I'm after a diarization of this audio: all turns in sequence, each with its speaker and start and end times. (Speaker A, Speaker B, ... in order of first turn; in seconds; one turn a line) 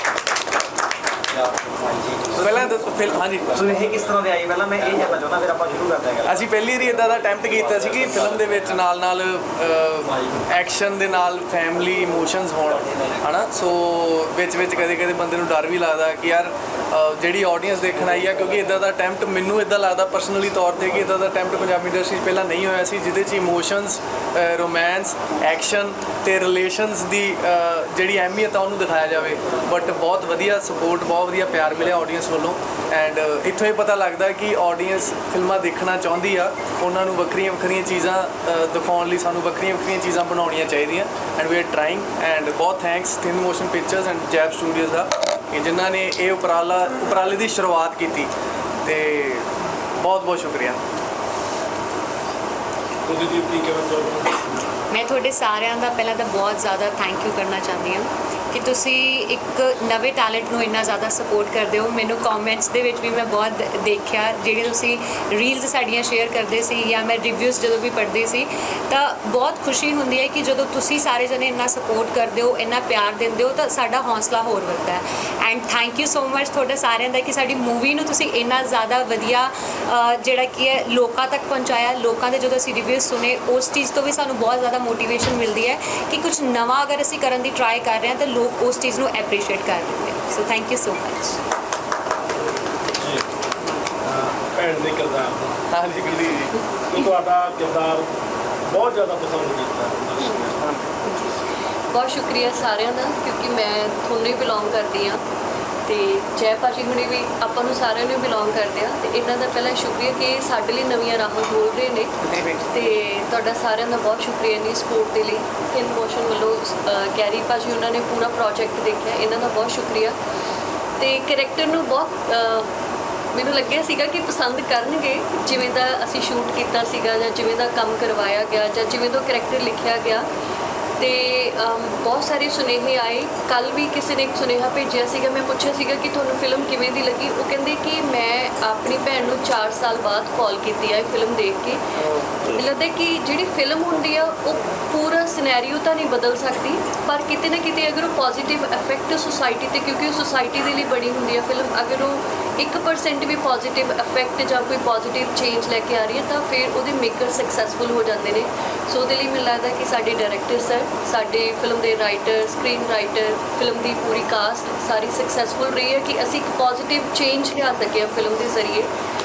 Speaker A: 2.3-3.6
Speaker B: 3.5-6.4
Speaker A: 6.2-48.3
Speaker A: 48.8-50.8
Speaker C: 53.0-54.7
Speaker D: 54.9-91.4
Speaker C: 93.0-93.2
Speaker C: 94.0-95.6
Speaker A: 95.7-96.6
Speaker C: 96.9-98.1
Speaker C: 98.7-100.7
Speaker E: 101.9-105.2
Speaker E: 105.9-120.2
Speaker E: 121.0-122.7
Speaker E: 123.3-130.3
Speaker E: 131.0-168.9